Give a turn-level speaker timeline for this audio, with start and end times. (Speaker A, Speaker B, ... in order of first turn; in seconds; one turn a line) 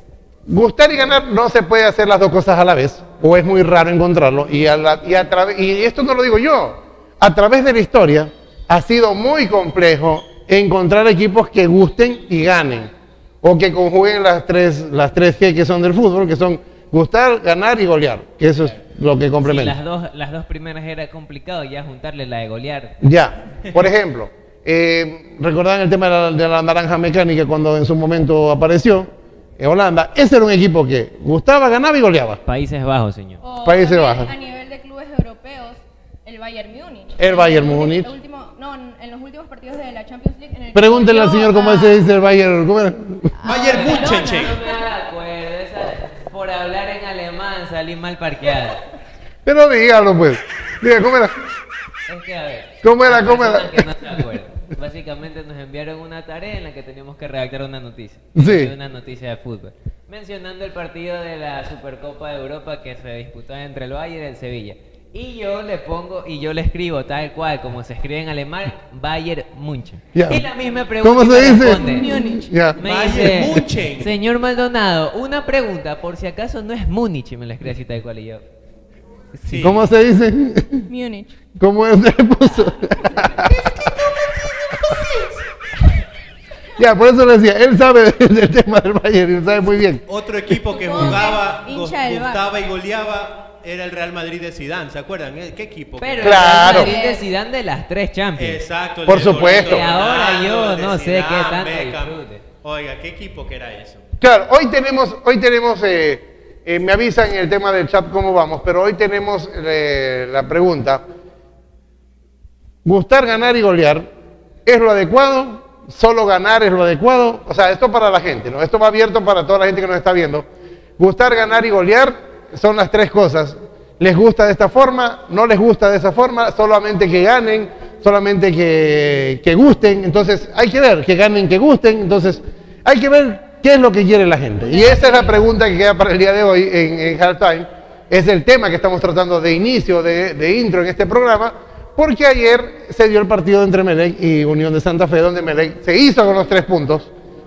Speaker A: 0.5-19.8
Speaker B: 19.4-22.9
Speaker A: 23.0-32.4
Speaker B: 32.5-33.4
Speaker C: 33.4-42.1
Speaker A: 33.6-34.3
Speaker A: 37.2-38.1
Speaker A: 40.7-43.3
Speaker C: 43.4-44.6
Speaker D: 43.5-44.6
Speaker B: 43.7-48.8
Speaker A: 49.4-51.3
Speaker B: 52.1-72.1
Speaker A: 52.8-53.9
Speaker A: 58.4-58.7
Speaker A: 70.1-70.5
Speaker A: 71.0-72.8
Speaker C: 71.6-72.5
Speaker B: 72.8-78.4
Speaker D: 72.8-74.1
Speaker B: 79.3-79.8
Speaker D: 79.5-79.8
Speaker A: 79.6-80.9
Speaker C: 80.9-81.3
Speaker A: 81.6-83.5
Speaker C: 83.4-85.3
Speaker A: 86.8-90.0
Speaker D: 90.1-96.8
Speaker C: 90.7-92.4
Speaker B: 96.0-98.6
Speaker A: 96.2-96.9
Speaker C: 96.7-97.2
Speaker D: 98.4-104.0
Speaker A: 99.1-99.9
Speaker B: 99.2-102.4
Speaker A: 104.2-111.0
Speaker A: 112.8-114.1
Speaker A: 114.7-120.5
Speaker A: 121.0-147.1
Speaker C: 134.6-135.4